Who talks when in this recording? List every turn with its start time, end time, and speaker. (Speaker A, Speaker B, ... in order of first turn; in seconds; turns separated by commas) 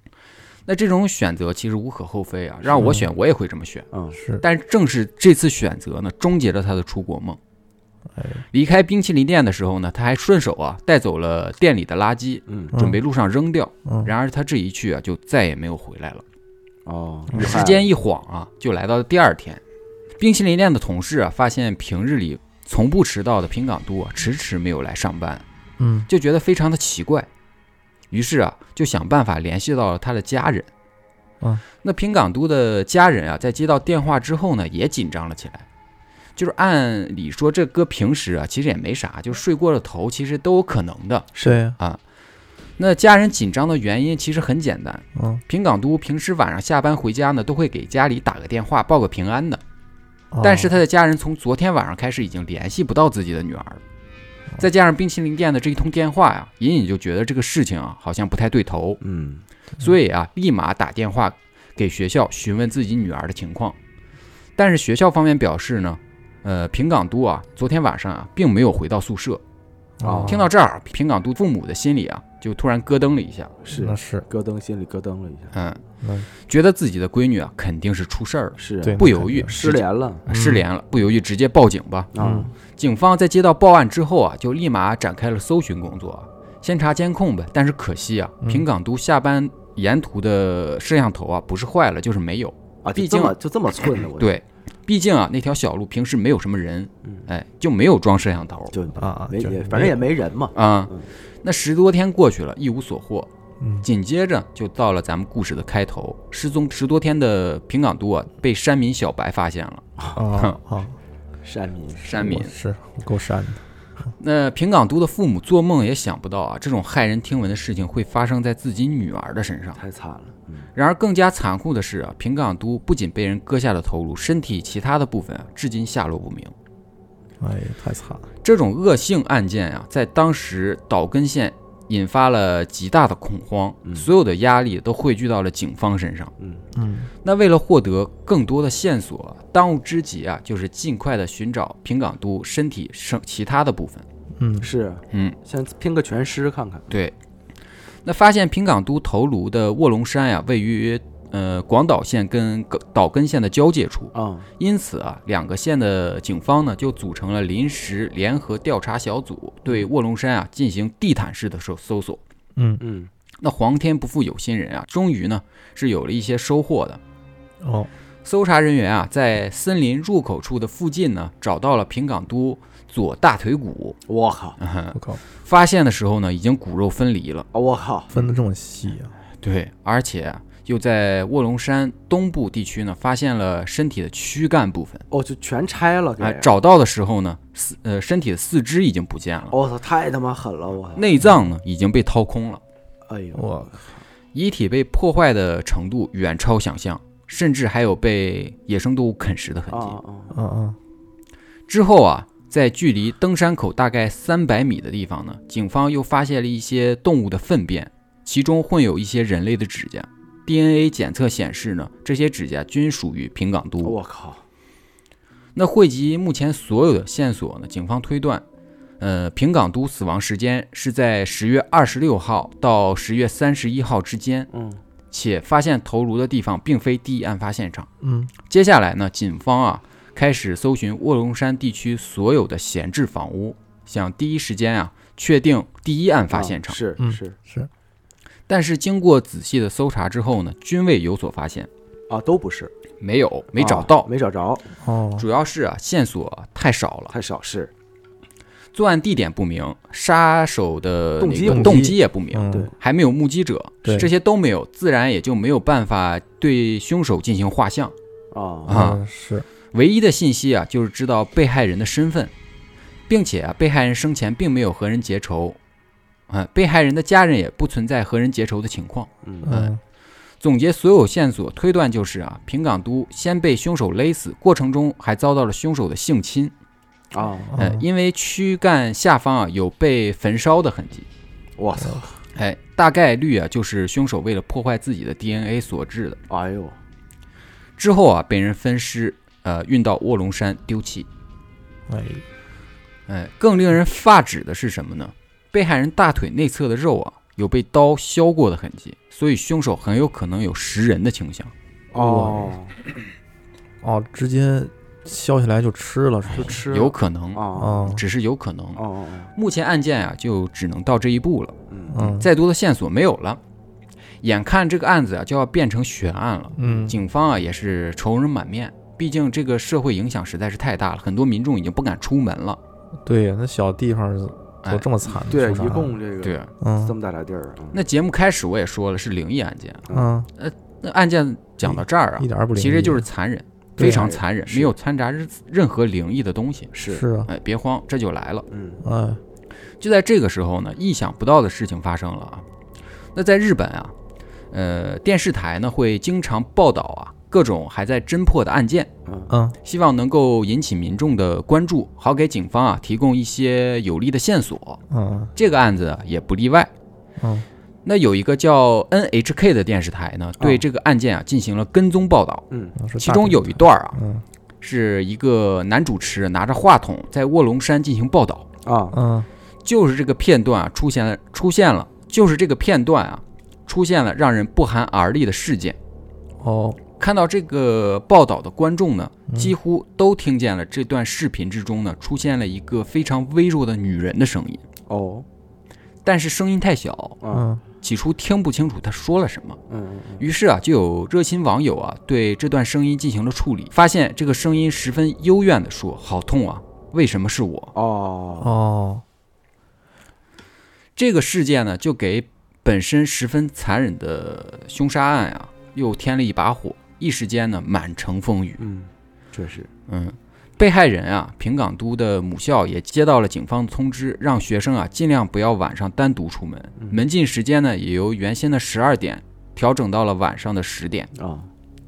Speaker A: 0.7-3.9, Speaker B: 2.6-3.0, Speaker C: 2.8-3.1, Speaker B: 3.9-4.2, Speaker A: 4.4-7.4, Speaker C: 8.2-8.4, Speaker A: 8.5-16.2, Speaker B: 12.5-12.7, Speaker C: 12.7-13.0, Speaker C: 13.8-14.1, Speaker B: 16.9-17.9, Speaker C: 17.3-17.6, Speaker A: 17.3-19.6, Speaker A: 20.2-25.4, Speaker C: 25.8-26.1, Speaker A: 26.1-27.3, Speaker A: 28.1-30.7, Speaker A: 31.8-35.6, Speaker A: 36.4-42.0, Speaker C: 41.4-41.8, Speaker A: 42.8-49.6, Speaker C: 45.1-45.4, Speaker C: 50.3-50.7, Speaker A: 50.4-53.8, Speaker A: 54.6-59.0, Speaker B: 59.0-59.4, Speaker A: 59.8-63.8, Speaker A: 64.6-69.4, Speaker C: 70.0-70.5, Speaker B: 70.0-70.5, Speaker A: 70.2-73.5, Speaker B: 73.6-75.5, Speaker C: 73.7-74.2, Speaker A: 75.5-75.8, Speaker C: 76.0-76.3, Speaker A: 76.4-82.1, Speaker B: 78.6-80.2, Speaker C: 78.8-79.5, Speaker C: 80.3-80.6, Speaker B: 82.1-82.5, Speaker C: 82.2-82.5, Speaker A: 82.7-93.3, Speaker B: 92.8-94.3, Speaker A: 94.1-98.7, Speaker B: 98.7-101.1, Speaker C: 99.0-100.0, Speaker A: 100.5-100.9, Speaker A: 101.4-103.3, Speaker C: 103.6-103.9, Speaker A: 103.8-110.6, Speaker C: 110.1-111.0, Speaker B: 111.4-112.2, Speaker A: 112.0-112.5, Speaker C: 112.1-113.6, Speaker A: 114.2-119.8, Speaker B: 119.8-120.7, Speaker A: 120.7-126.5, Speaker C: 127.4-128.2, Speaker A: 128.4-136.3, Speaker B: 136.4-136.6, Speaker C: 136.8-137.1, Speaker A: 137.2-144.0, Speaker C: 144.4-144.7, Speaker B: 144.6-146.9, Speaker A: 145.1-145.3, Speaker A: 146.9-147.1, Speaker A: 148.0-162.2, Speaker B: 154.1-154.5, Speaker C: 162.6-162.8, Speaker B: 162.8-163.1, Speaker A: 163.4-167.0, Speaker C: 167.6-167.9, Speaker A: 168.2-174.0, Speaker B: 174.1-174.6, Speaker A: 174.6-177.5, Speaker C: 174.9-175.2, Speaker B: 177.5-178.1, Speaker C: 178.1-179.1, Speaker A: 179.4-185.0, Speaker B: 185.1-186.5, Speaker A: 186.2-189.6, Speaker B: 189.5-191.0, Speaker A: 190.9-192.6, Speaker B: 193.1-193.8, Speaker C: 193.3-193.7, Speaker A: 194.3-200.0, Speaker B: 199.7-200.4, Speaker C: 200.3-200.8, Speaker A: 201.7-214.0, Speaker B: 213.8-214.4, Speaker A: 215.6-218.4, Speaker A: 219.0-224.5, Speaker B: 224.5-224.8, Speaker A: 225.1-227.9, Speaker C: 228.0-228.3, Speaker A: 228.4-236.8, Speaker B: 236.3-237.3, Speaker C: 237.0-237.7, Speaker A: 238.5-241.7, Speaker B: 242.1-242.7, Speaker A: 243.0-244.1, Speaker B: 243.6-244.7, Speaker C: 244.8-245.2, Speaker A: 245.2-247.1, Speaker B: 247.1-247.7, Speaker A: 248.7-257.9, Speaker B: 251.2-251.9, Speaker C: 251.4-252.7, Speaker B: 258.3-258.8, Speaker A: 258.7-259.0, Speaker C: 258.7-259.4, Speaker A: 259.7-262.3, Speaker A: 263.1-265.6, Speaker A: 266.3-269.8, Speaker B: 269.2-269.5, Speaker C: 269.4-269.8, Speaker A: 270.4-276.5, Speaker B: 277.1-277.5, Speaker C: 277.5-277.8, Speaker A: 277.6-281.1, Speaker B: 281.6-282.1, Speaker A: 282.3-286.2, Speaker B: 286.3-286.8, Speaker A: 287.8-291.1, Speaker C: 291.9-292.2, Speaker A: 293.1-301.5, Speaker B: 301.9-302.7, Speaker C: 301.9-302.5, Speaker C: 303.8-306.6, Speaker B: 306.3-308.0, Speaker A: 306.6-308.8, Speaker C: 307.6-308.0, Speaker B: 308.8-309.3, Speaker A: 309.3-313.4, Speaker B: 311.7-312.0, Speaker C: 311.9-312.3, Speaker A: 314.2-322.6, Speaker C: 316.6-316.9, Speaker B: 316.6-316.9, Speaker C: 323.0-326.0, Speaker B: 325.1-327.8, Speaker A: 326.2-326.5, Speaker C: 326.6-326.9, Speaker A: 327.7-336.7, Speaker B: 329.9-330.1, Speaker C: 329.9-330.3, Speaker C: 331.7-333.1, Speaker C: 333.8-334.1, Speaker B: 333.8-334.7, Speaker B: 336.7-337.0, Speaker C: 336.9-337.3, Speaker A: 337.2-338.4, Speaker B: 338.5-338.8, Speaker C: 338.8-339.2, Speaker A: 339.8-342.4, Speaker A: 343.1-343.9, Speaker A: 344.5-348.9, Speaker B: 349.1-349.3, Speaker C: 349.3-349.6, Speaker A: 349.6-354.8, Speaker C: 354.9-355.3, Speaker A: 355.3-356.7, Speaker C: 357.2-357.4, Speaker A: 357.8-362.4, Speaker B: 362.5-362.7, Speaker C: 362.8-364.2, Speaker A: 363.0-364.0, Speaker A: 364.6-368.4, Speaker B: 368.6-368.9, Speaker C: 368.9-369.3, Speaker A: 369.6-375.8, Speaker C: 376.4-376.8, Speaker A: 377.0-384.6, Speaker B: 384.9-385.2, Speaker A: 386.0-387.2, Speaker B: 387.2-387.5, Speaker C: 387.3-387.6, Speaker A: 387.8-389.6, Speaker B: 389.7-390.2, Speaker A: 390.2-397.7, Speaker B: 397.7-398.5, Speaker C: 398.4-399.0, Speaker A: 400.9-408.6, Speaker B: 408.6-409.7, Speaker A: 409.9-421.1, Speaker B: 421.1-421.5